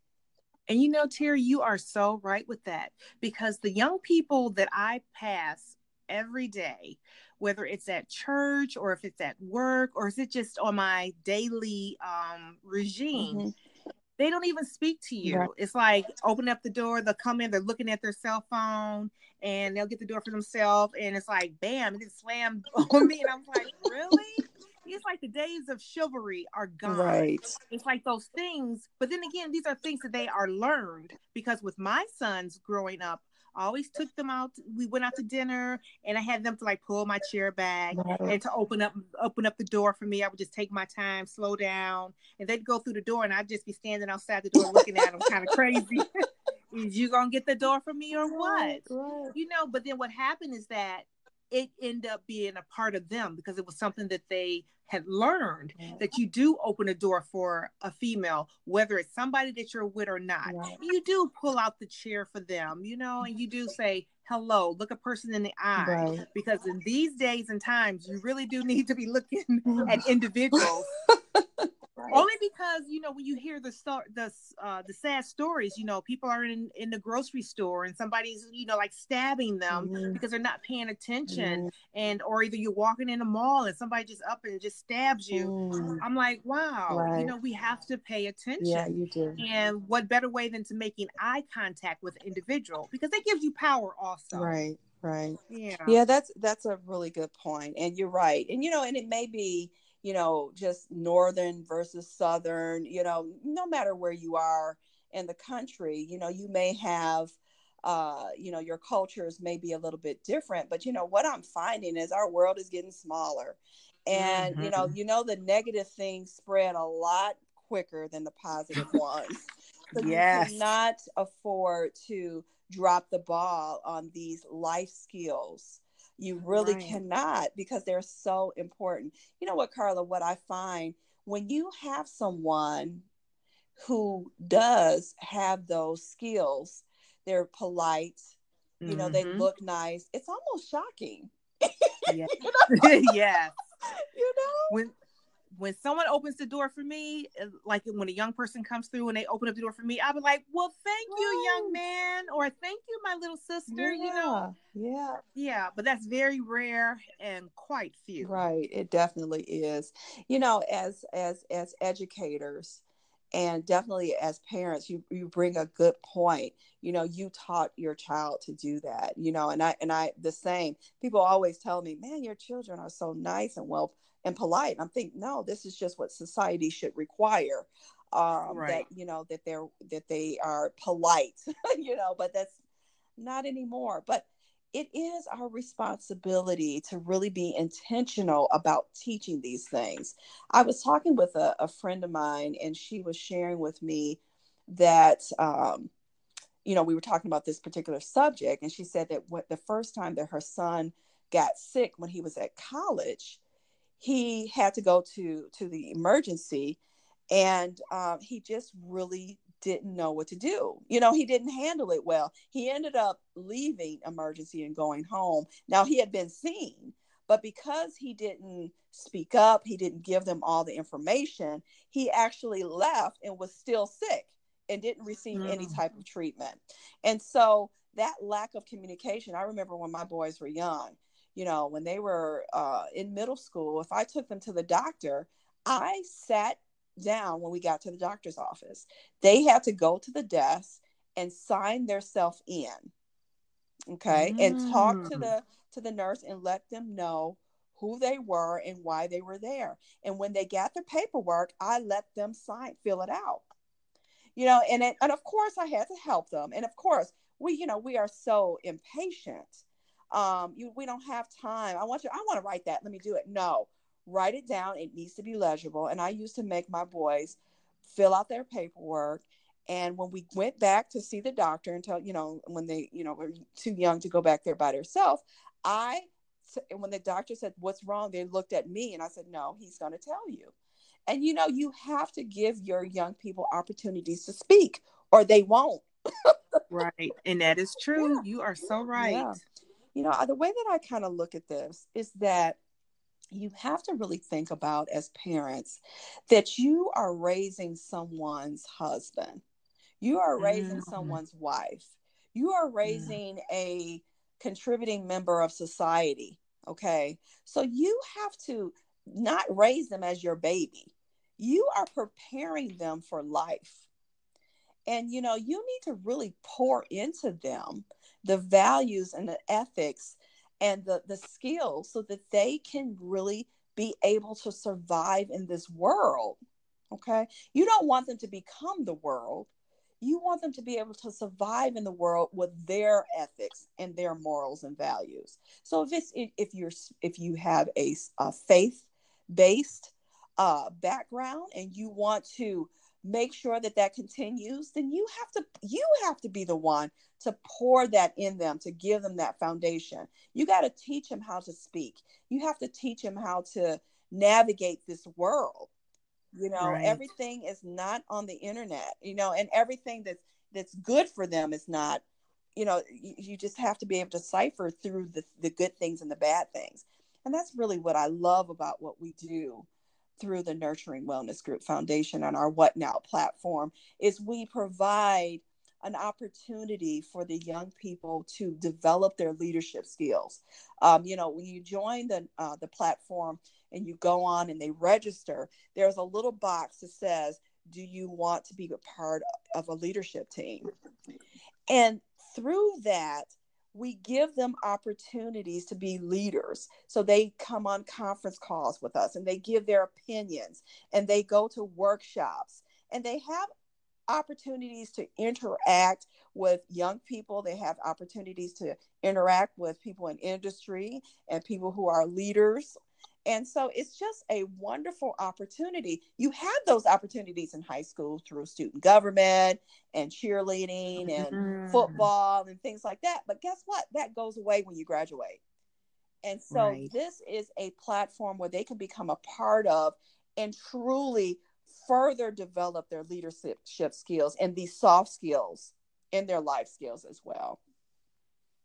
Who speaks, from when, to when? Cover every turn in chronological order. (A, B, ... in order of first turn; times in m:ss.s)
0:00.7-0:13.4 A
0:13.1-0:13.5 B
0:14.2-0:46.1 A
0:15.2-0:15.5 B
0:26.8-0:27.5 B
0:37.9-0:38.4 B
0:44.6-0:45.5 B
0:46.7-1:10.9 A
0:48.1-0:49.4 B
0:55.8-0:56.1 B
1:00.4-1:00.8 B
1:05.8-1:06.2 B
1:09.7-1:10.0 B
1:10.5-1:12.2 B
1:12.1-1:34.5 A
1:19.7-1:20.2 B
1:21.3-1:21.7 B
1:25.3-1:26.0 B
1:26.9-1:27.3 B
1:28.6-1:29.4 B
1:34.3-1:59.4 B
1:35.5-1:36.0 A
1:54.1-1:54.9 A
1:59.9-2:00.6 A
1:59.9-2:13.1 B
2:06.4-2:07.0 A
2:13.8-2:18.3 B
2:18.8-2:19.5 A
2:18.9-2:22.9 B
2:22.1-2:23.5 A
2:24.1-2:24.8 B
2:25.5-2:34.4 A
2:31.1-2:31.8 B
2:33.7-2:35.2 B
2:35.3-2:38.4 A
2:38.2-2:42.8 B
2:43.3-3:02.6 B
2:58.5-2:58.8 A
3:03.2-3:15.9 B
3:16.6-3:23.4 B
3:24.0-3:26.8 B
3:27.3-4:02.9 B
3:45.3-3:45.8 A
4:03.9-4:13.4 B
4:04.1-4:05.3 A
4:14.4-4:40.5 B
4:41.1-4:46.3 B
4:46.7-4:49.3 A
4:48.0-4:48.2 B
4:48.9-4:49.4 B
4:49.9-4:52.6 B
4:53.3-4:59.4 B
5:00.0-5:13.8 B
5:00.4-5:01.2 A
5:02.8-5:03.2 A
5:14.9-5:26.4 B
5:26.9-5:29.5 B
5:30.0-5:55.7 B
5:56.3-6:02.0 B
5:56.6-5:57.0 A
6:02.6-6:09.7 B
6:10.2-6:30.6 B
6:31.7-6:43.5 B
6:44.1-7:05.4 B
7:01.0-7:02.1 A
7:06.2-7:17.6 B
7:06.5-7:06.9 A